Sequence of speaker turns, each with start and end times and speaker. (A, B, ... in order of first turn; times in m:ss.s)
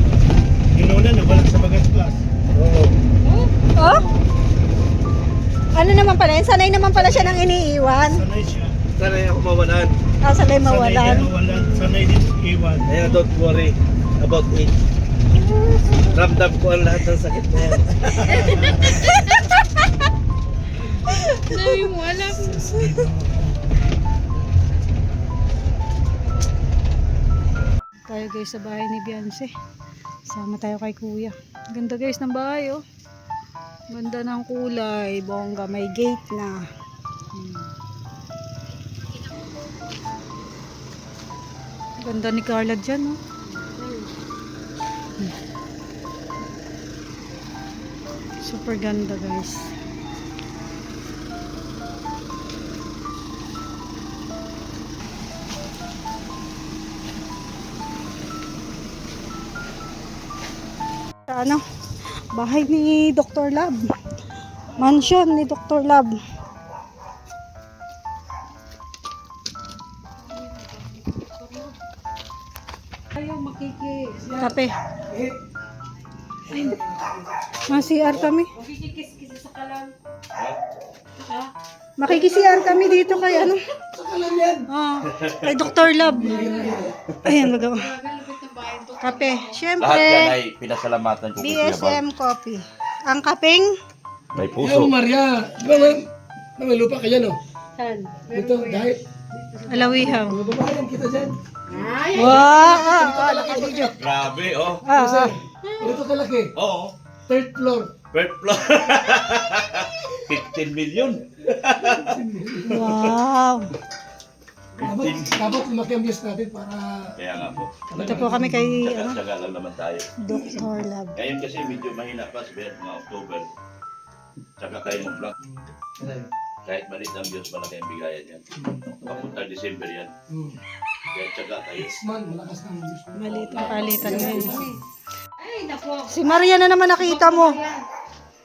0:00.7-0:02.2 A
0:02.5-0:02.9 B
0:03.2-0:03.5 C
0:03.8-0:04.0 D
0:05.7-0:08.2 D
0:06.9-0:07.5 A
0:08.1-0:08.7 A
0:09.0-0:09.9 B
0:10.2-0:11.4 D
0:10.6-0:13.0 A
0:12.8-0:14.7 B
0:16.1-0:18.5 B
0:18.1-0:19.1 A
0:21.4-0:22.9 C
0:22.3-0:23.6 A
0:28.1-0:29.5 D
0:30.3-0:32.8 D
0:33.9-0:36.6 D
0:42.0-0:43.2 D
0:43.5-0:44.1 C
0:48.4-0:49.7 D
1:01.3-1:01.6 D
1:02.3-1:03.9 D
1:04.8-1:06.1 D
1:10.3-1:11.7 C
1:13.1-1:14.2 C
1:14.2-1:14.5 E
1:14.4-1:14.7 D
1:15.1-1:15.4 E
1:16.5-1:16.8 D
1:16.5-1:17.2 E
1:17.6-1:18.5 D
1:18.5-1:19.9 C
1:21.2-1:21.5 C
1:22.0-1:23.6 D
1:22.2-1:23.4 C
1:23.9-1:24.6 E
1:24.7-1:26.4 D
1:25.1-1:25.7 F
1:26.0-1:27.0 E
1:26.2-1:26.8 C
1:27.2-1:27.9 D
1:27.8-1:29.5 C
1:29.0-1:30.4 D
1:29.8-1:32.0 F
1:31.4-1:33.7 D
1:34.3-1:34.9 F
1:34.5-1:36.1 E
1:36.6-1:37.4 E
1:37.8-1:40.2 C
1:38.3-1:39.0 E
1:39.7-1:40.4 D
1:40.0-1:41.4 E
1:41.7-1:42.5 C
1:42.1-1:43.9 D
1:42.3-1:44.0 E
1:43.9-1:44.8 F
1:44.8-1:45.4 D
1:44.9-1:46.5 E
1:46.6-1:46.9 F
1:47.3-1:47.9 E
1:48.1-1:52.1 F
1:51.8-1:53.0 E
1:52.7-1:53.7 D
1:54.8-1:55.4 F
1:54.8-1:58.8 E
1:57.2-1:57.7 F
1:58.0-1:59.2 D
1:58.7-2:00.1 F
2:00.2-2:01.2 D
2:01.2-2:03.5 F
2:04.6-2:05.3 F
2:05.4-2:06.3 E
2:06.6-2:08.4 F
2:08.6-2:09.1 E
2:09.0-2:10.1 F
2:10.3-2:10.6 E
2:11.1-2:11.9 F
2:11.8-2:14.7 E
2:13.1-2:14.7 D
2:13.3-2:14.1 F
2:15.4-2:16.2 C
2:16.1-2:17.6 D
2:16.9-2:17.8 C